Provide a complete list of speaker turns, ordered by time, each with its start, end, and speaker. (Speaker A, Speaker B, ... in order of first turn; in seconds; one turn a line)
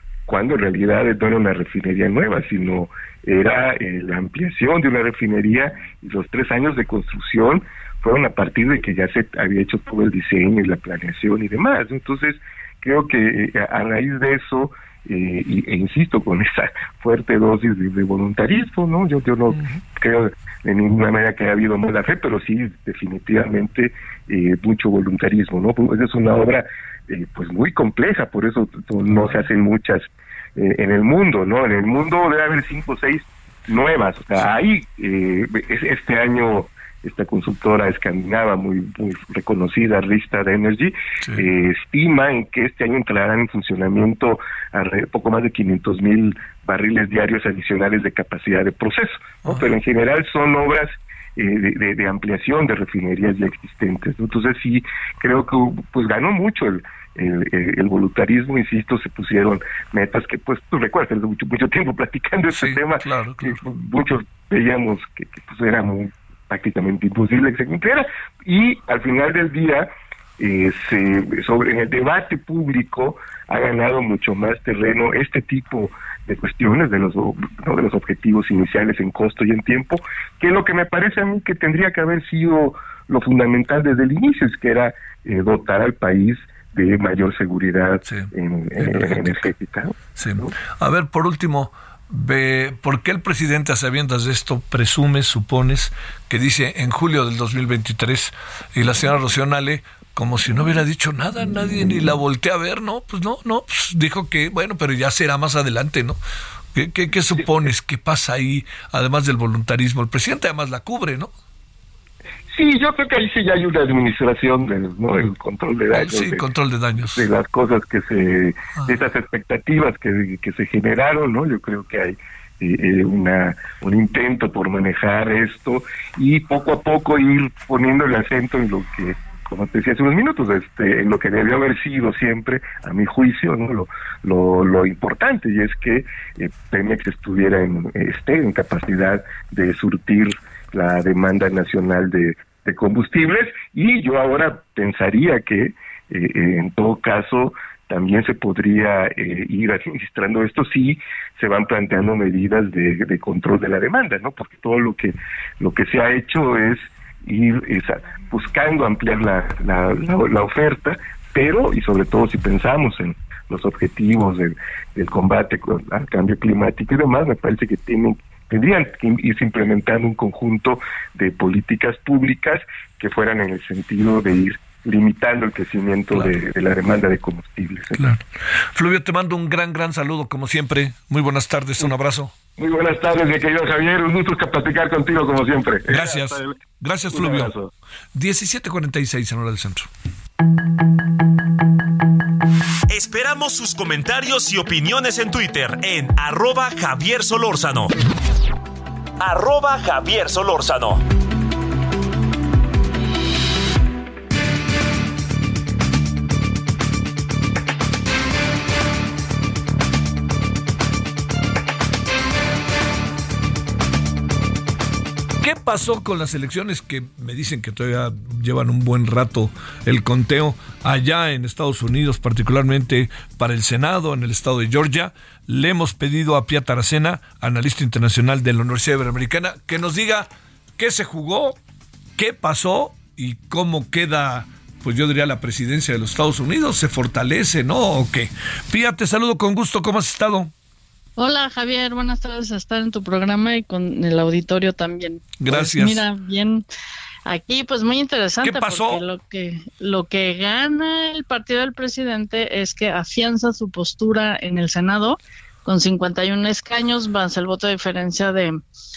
Speaker A: 0.3-90.5
Speaker B: 62.5-63.6
Speaker B: 88.0-89.5
Speaker B: 90.2-106.2
Speaker B: 106.7-111.3
Speaker A: 112.5-178.1
Speaker B: 115.9-117.3
Speaker B: 177.9-182.3
Speaker A: 182.6-186.6
Speaker B: 185.9-187.5
Speaker A: 187.1-187.7
Speaker B: 188.2-189.9
Speaker C: 192.9-197.9
Speaker C: 199.2-201.1
Speaker B: 215.4-231.6
Speaker B: 232.2-240.5
Speaker D: 241.2-246.7
Speaker B: 245.4-246.1
Speaker D: 247.3-258.6
Speaker B: 248.4-249.0